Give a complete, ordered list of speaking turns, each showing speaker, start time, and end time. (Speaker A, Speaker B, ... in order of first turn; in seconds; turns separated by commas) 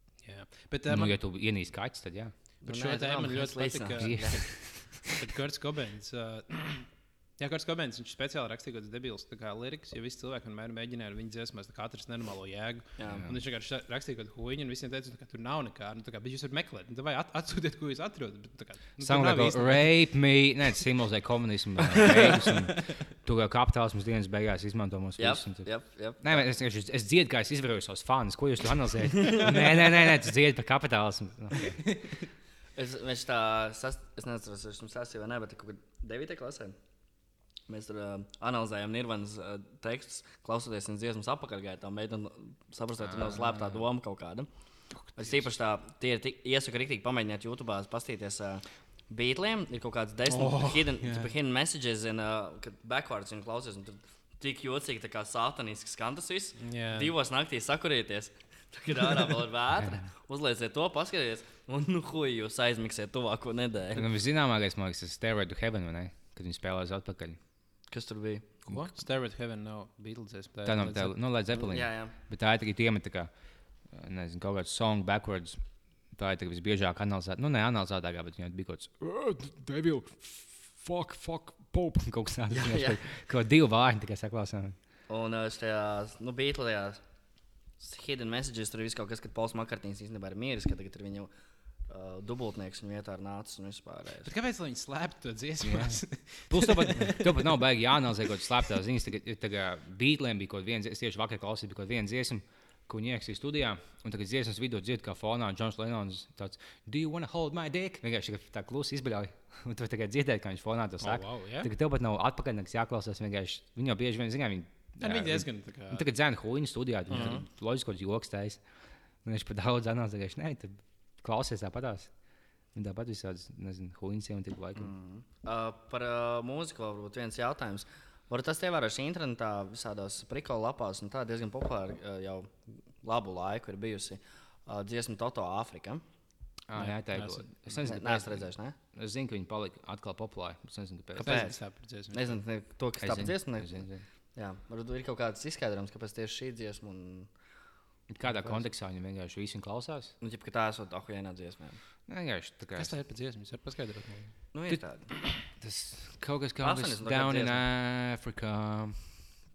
Speaker A: 0.2-1.1, Speaker B: 0.9-2.3, Speaker A: 2.6-19.9, Speaker C: 2.6-4.7, Speaker B: 4.0-5.0, Speaker C: 13.0-13.2, Speaker B: 13.1-13.4, Speaker B: 19.0-31.9, Speaker A: 22.0-22.6, Speaker C: 25.2-26.5, Speaker C: 32.8-36.8, Speaker C: 37.7-44.5, Speaker B: 43.0-43.8, Speaker A: 44.9-45.5, Speaker C: 45.2-64.1, Speaker A: 50.3-51.3, Speaker A: 56.6-57.1, Speaker B: 64.0-67.4, Speaker C: 67.9-68.5, Speaker A: 68.7-71.1, Speaker B: 70.7-84.8, Speaker C: 71.5-72.2, Speaker C: 82.5-83.0, Speaker C: 85.1-87.0, Speaker C: 87.8-91.3, Speaker C: 91.9-94.3, Speaker A: 94.2-97.5, Speaker B: 95.6-122.2, Speaker A: 111.0-111.7, Speaker A: 115.0-116.1, Speaker C: 117.1-117.4, Speaker A: 117.1-117.4, Speaker B: 122.7-124.9, Speaker C: 124.8-136.0, Speaker B: 136.7-141.5, Speaker A: 136.8-137.8, Speaker C: 137.8-138.8, Speaker A: 141.2-142.4, Speaker C: 141.2-147.3, Speaker B: 143.0-144.1, Speaker B: 148.1-150.1, Speaker C: 148.3-148.7, Speaker C: 150.2-151.8, Speaker B: 152.1-152.9, Speaker A: 152.8-154.4, Speaker C: 154.5-155.1, Speaker B: 154.7-159.4, Speaker C: 156.6-157.6